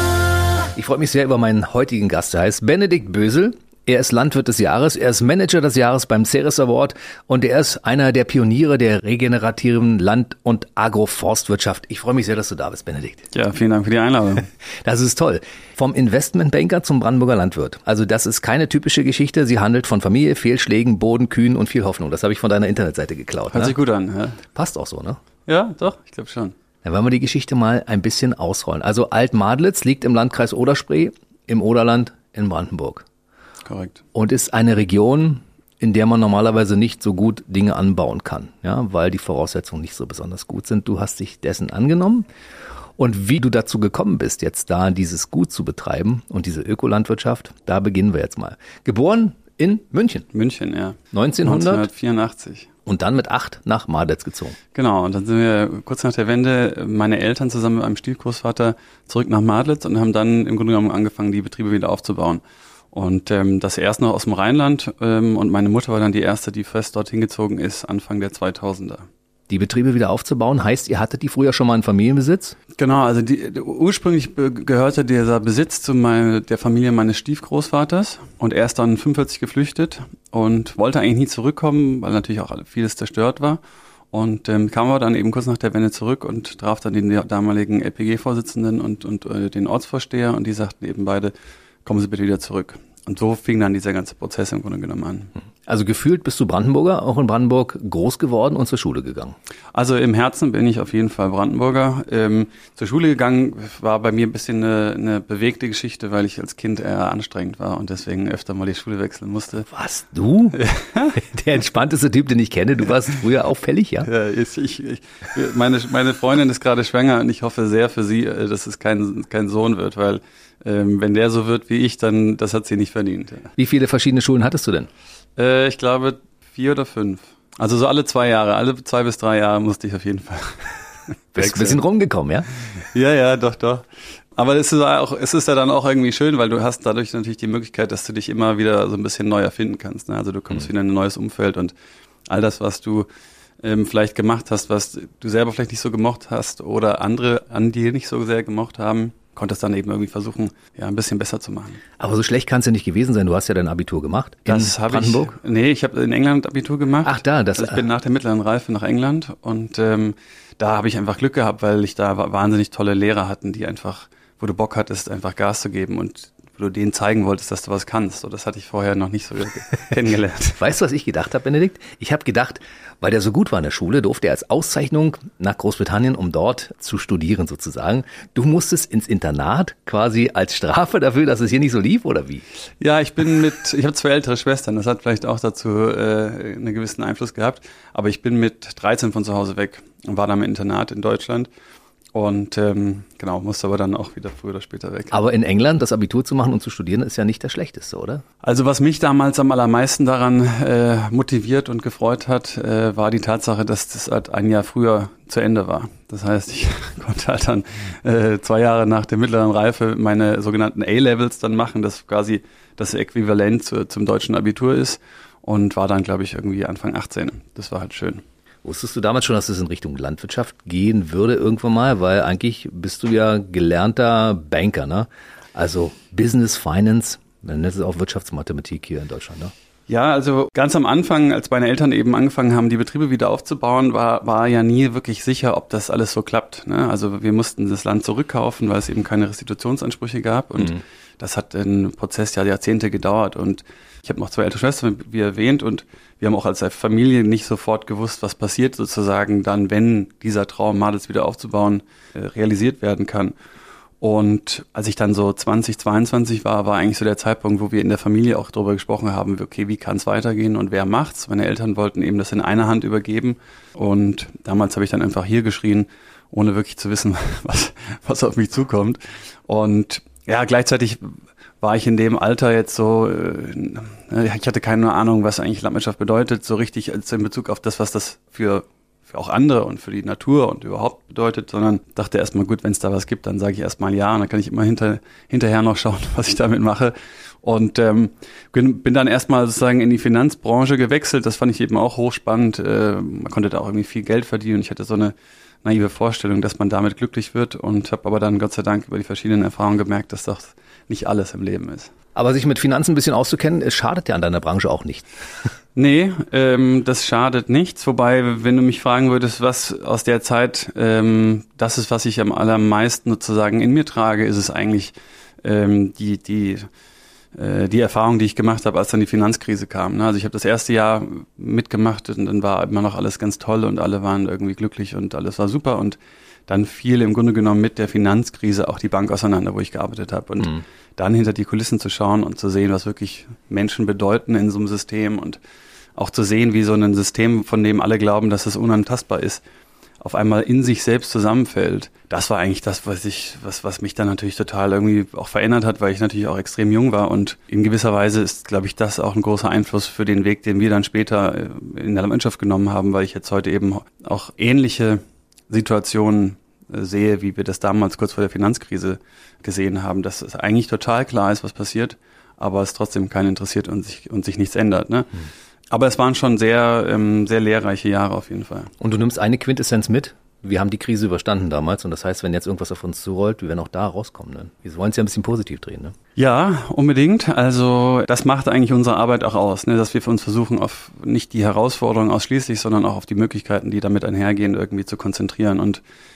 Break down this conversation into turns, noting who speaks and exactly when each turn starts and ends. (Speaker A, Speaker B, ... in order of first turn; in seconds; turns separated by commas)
Speaker A: 0.7-13.2, Speaker B: 13.3-14.5, Speaker A: 14.8-23.7, Speaker B: 23.5-24.4, Speaker A: 24.5-25.2, Speaker B: 25.5-26.5, Speaker A: 26.8-33.0, Speaker B: 33.6-34.0, Speaker A: 34.1-42.2, Speaker A: 43.0-50.3, Speaker B: 50.3-52.7, Speaker A: 51.1-51.9, Speaker A: 52.9-54.6, Speaker B: 54.7-62.4, Speaker B: 62.9-69.0, Speaker A: 69.5-72.6, Speaker B: 72.8-83.6, Speaker B: 84.1-91.3, Speaker B: 91.8-95.3, Speaker A: 95.7-99.3, Speaker B: 99.7-109.7, Speaker A: 109.7-110.6, Speaker B: 110.5-111.2, Speaker A: 111.2-114.1, Speaker B: 114.0-123.5, Speaker A: 123.6-124.9, Speaker B: 125.4-130.7, Speaker B: 131.3-131.8, Speaker A: 131.3-132.5, Speaker B: 132.9-141.7, Speaker B: 142.3-143.1, Speaker B: 143.6-151.8, Speaker A: 152.0-155.3, Speaker B: 154.4-170.6, Speaker A: 157.0-157.8, Speaker A: 170.6-182.4, Speaker B: 182.8-191.5, Speaker B: 192.1-195.2, Speaker A: 195.1-198.2, Speaker B: 198.4-218.2, Speaker A: 218.6-229.5, Speaker B: 229.9-253.3, Speaker B: 254.0-301.9, Speaker A: 302.1-305.1, Speaker B: 305.8-316.7, Speaker B: 317.4-335.4, Speaker B: 335.9-339.4, Speaker B: 340.0-365.1, Speaker B: 365.7-368.7, Speaker A: 368.8-375.9, Speaker B: 376.1-385.8